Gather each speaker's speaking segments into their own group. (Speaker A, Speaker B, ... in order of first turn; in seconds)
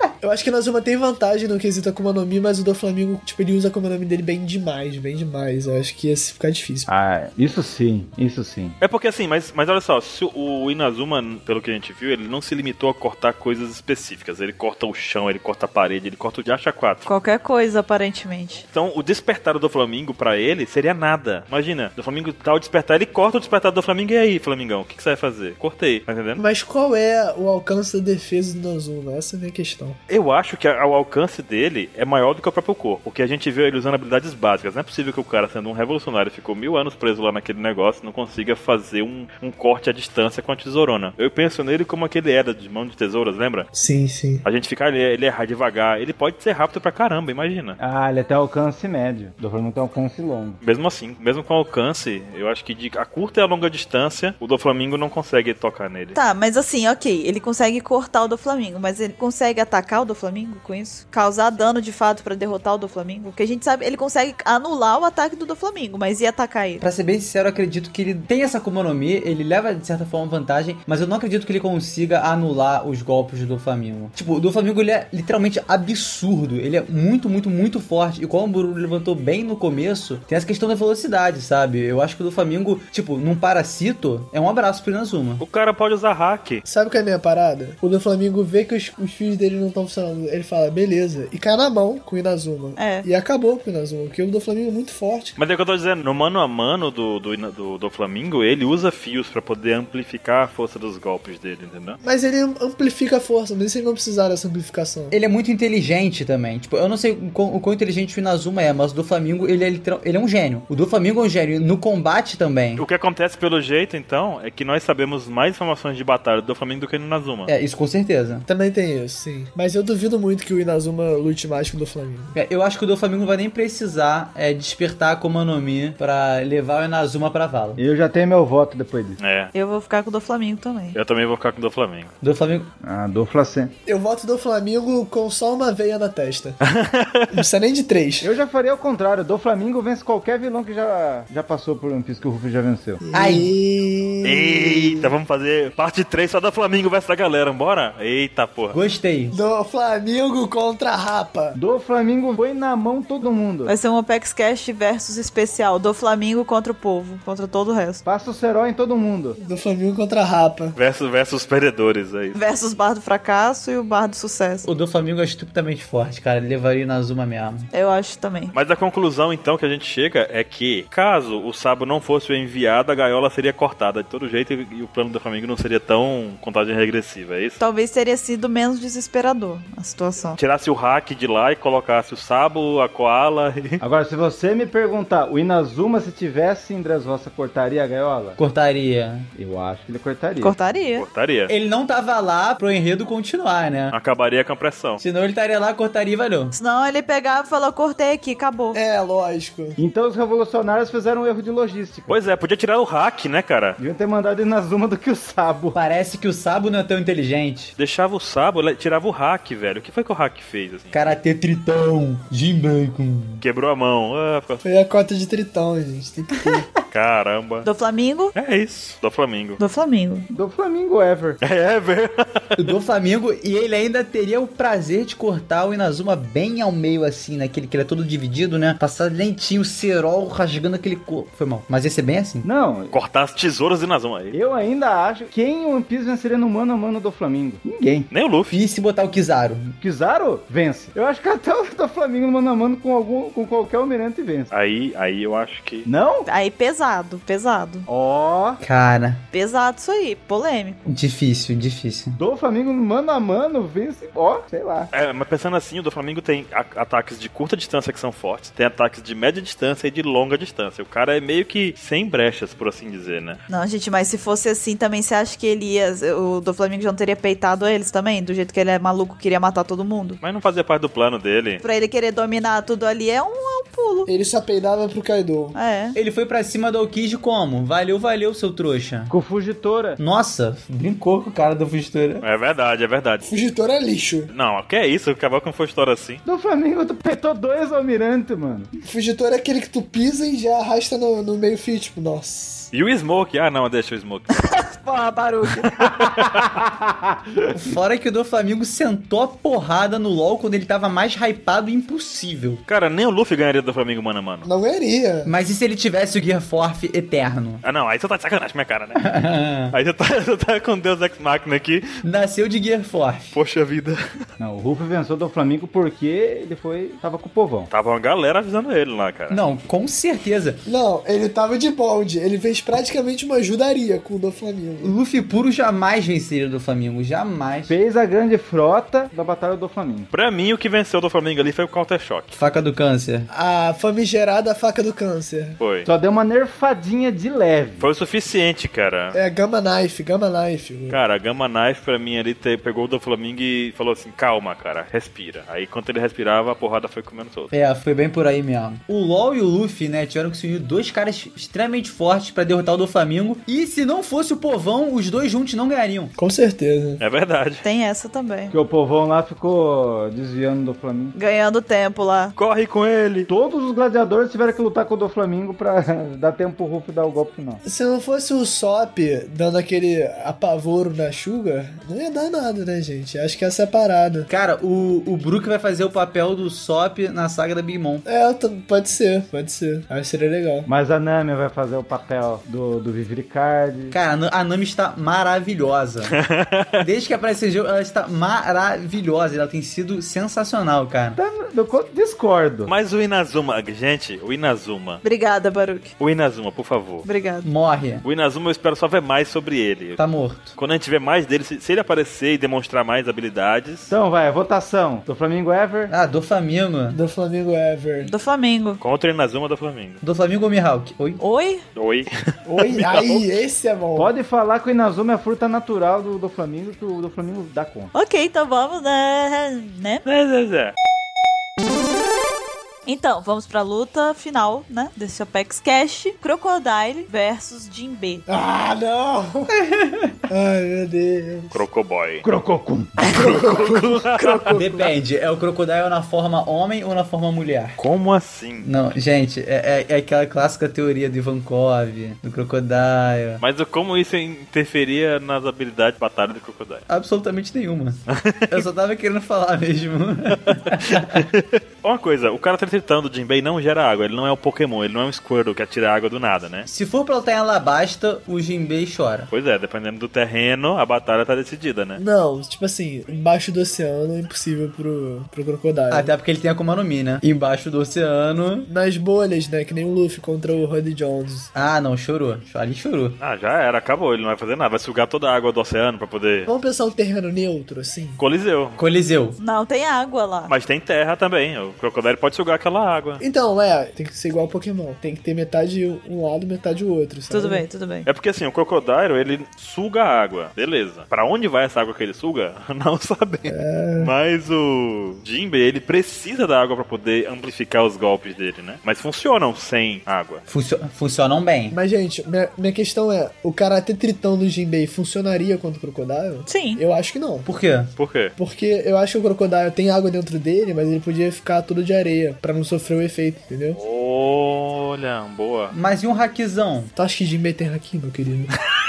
Speaker A: 0.2-6.9, 26.4-30.0, 43.7-44.4, 86.7-95.4, 102.0-105.2, 118.5-122.3, 133.8-136.6, 137.3-138.3, 143.0-145.1, 149.3-151.6, 159.4-160.8, 198.7-199.8, 214.6-216.7, 274.1-275.6, 283.2-284.3, 288.8-292.7, 304.4-305.3, 320.6-324.9, 333.3-335.6, 339.1-341.0, 356.2-357.0, 367.6-374.3, 378.0-380.7, 406.9-408.1, 412.6-414.1, 428.3-429.5, 430.3-431.6, 433.0-434.9, 462.0-466.1, 468.6-471.5, 476.5-478.2, 483.2-487.6, 493.5-494.1, 501.7-507.5, 508.4-513.8, 517.0-518.5
Speaker B: 6.9-8.8, 47.8-50.6, 127.8-129.2, 132.8-133.7, 138.2-143.0, 151.5-153.7, 158.0-159.4, 183.8-188.4, 189.3-190.6, 199.8-202.2, 203.8-205.8, 220.3-221.4, 232.4-233.0, 234.3-238.1, 239.8-244.5, 245.8-246.3, 247.9-248.6, 252.2-254.9, 279.1-280.0, 286.2-288.7, 296.0-296.7, 314.4-317.7, 327.7-330.1, 335.9-337.9, 358.5-361.1, 363.3-367.6, 380.6-383.9, 391.1-392.7, 403.9-405.9, 412.5-413.2, 413.9-417.9, 432.2-433.0
Speaker C: 8.8-17.1, 18.7-26.4, 30.1-43.7, 44.4-47.8, 50.6-56.2, 85.4-86.6, 95.4-102.0, 112.8-117.5, 129.2-129.5, 130.9-132.1, 136.7-137.3, 144.2-148.8, 160.7-162.4, 168.5-177.6, 180.4-183.8, 191.0-191.5, 193.9-195.0, 202.1-203.8, 207.8-211.2, 213.4-214.6, 216.9-217.7, 218.3-219.6, 221.4-222.6, 232.9-234.3, 238.1-238.6, 244.5-245.9, 254.9-263.4, 270.2-271.6, 282.2-283.3, 284.3-286.2, 292.7-294.5, 295.9-296.3, 302.7-304.5, 307.6-309.0, 309.7-312.0, 313.3-314.0, 317.7-319.4, 330.1-332.3, 335.6-335.9, 337.8-339.2, 340.9-347.5, 357.0-357.6, 362.4-363.3, 386.2-386.9, 392.6-395.0, 396.0-397.1, 398.0-400.0, 400.5-403.9, 408.8-410.0, 411.8-412.1, 420.1-420.7, 431.5-432.2, 433.0-434.5, 437.8-438.7, 443.4-446.9, 448.1-448.7, 450.3-456.6, 459.3-462.0, 473.2-476.5, 478.2-478.8, 480.5-483.2, 488.1-500.4, 508.0-508.3, 513.7-515.7
Speaker D: 17.1-18.6, 56.1-66.8, 92.8-93.1, 129.5-130.9, 153.7-158.0, 162.3-164.7, 167.7-168.5, 177.6-180.4, 190.4-191.0, 196.5-198.8, 217.6-218.3, 219.6-220.2, 246.2-247.8, 249.3-250.8, 263.5-270.2, 271.6-274.1, 275.5-276.0, 357.6-358.5, 361.1-362.3, 395.0-395.9, 397.0-397.5, 408.0-408.8, 411.2-411.6, 417.9-420.0, 422.9-428.2, 479.4-480.5, 487.3-488.1, 506.5-506.8
Speaker E: 66.8-85.4, 105.1-112.8, 117.5-118.5, 122.3-127.8, 132.2-132.7, 143.1-143.5, 148.7-149.4, 164.6-167.7, 188.4-189.3, 191.5-193.9, 195.0-196.5, 205.7-207.7, 210.9-213.4, 222.6-232.5, 238.5-239.8, 248.6-249.2, 250.8-252.2, 275.9-279.1, 280.0-282.2, 295.0-295.3, 297.5-302.6, 305.2-307.6, 308.9-309.8, 312.0-313.3, 319.3-320.6, 324.8-327.7, 332.3-333.3, 347.5-356.1, 374.3-378.0, 383.9-386.1, 386.8-391.2, 397.4-398.0, 400.0-400.5, 405.9-407.0, 410.0-411.2, 429.5-430.1, 434.5-437.8, 438.6-443.4, 446.9-451.2, 456.6-459.3, 465.9-468.7, 471.5-473.2, 478.8-479.4, 500.5-501.8, 507.4-507.9, 515.7-516.9